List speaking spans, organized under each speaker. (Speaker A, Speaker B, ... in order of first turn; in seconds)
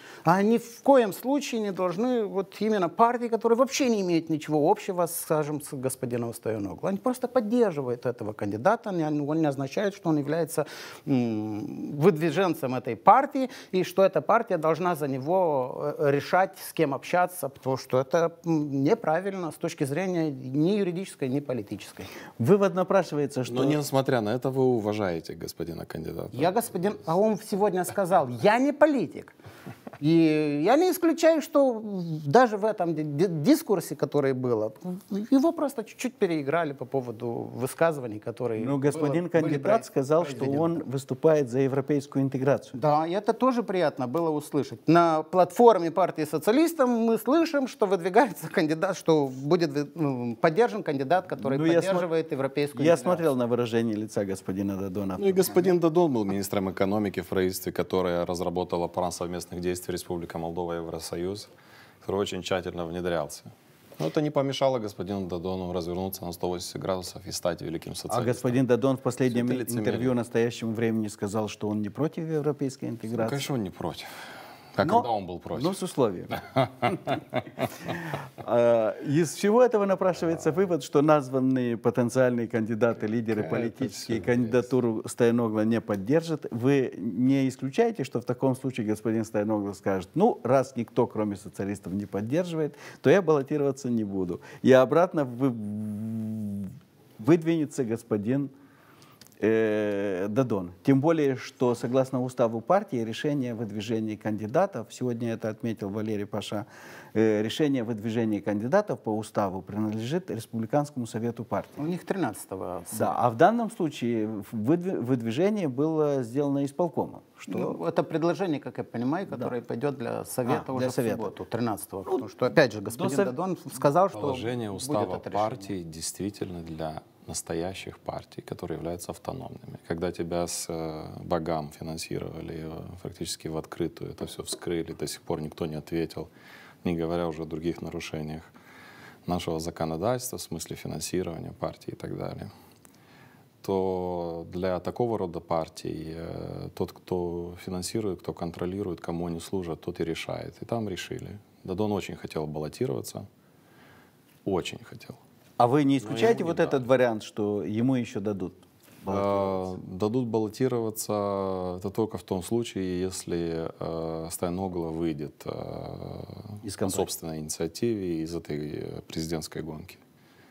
Speaker A: 0.2-22.1, 26.3-29.3, 30.0-40.8, 42.7-53.3, 111.8-113.2, 117.5-125.7
Speaker B: 22.4-23.8, 38.6-42.7, 51.4-52.1, 52.7-55.7, 68.1-73.5, 74.8-76.3, 78.4-98.5, 99.4-111.8, 112.9-117.8, 120.4-121.3, 122.9-123.3, 155.6-159.7, 166.6-167.1
Speaker C: 23.5-26.6, 55.2-61.5, 62.0-68.6, 69.2-70.1, 73.1-74.1, 74.7-75.7, 76.3-77.2, 83.3-84.7, 124.1-136.3, 136.8-138.5, 139.3-142.5, 143.6-153.3, 154.4-155.2, 156.0-156.9, 159.1-170.0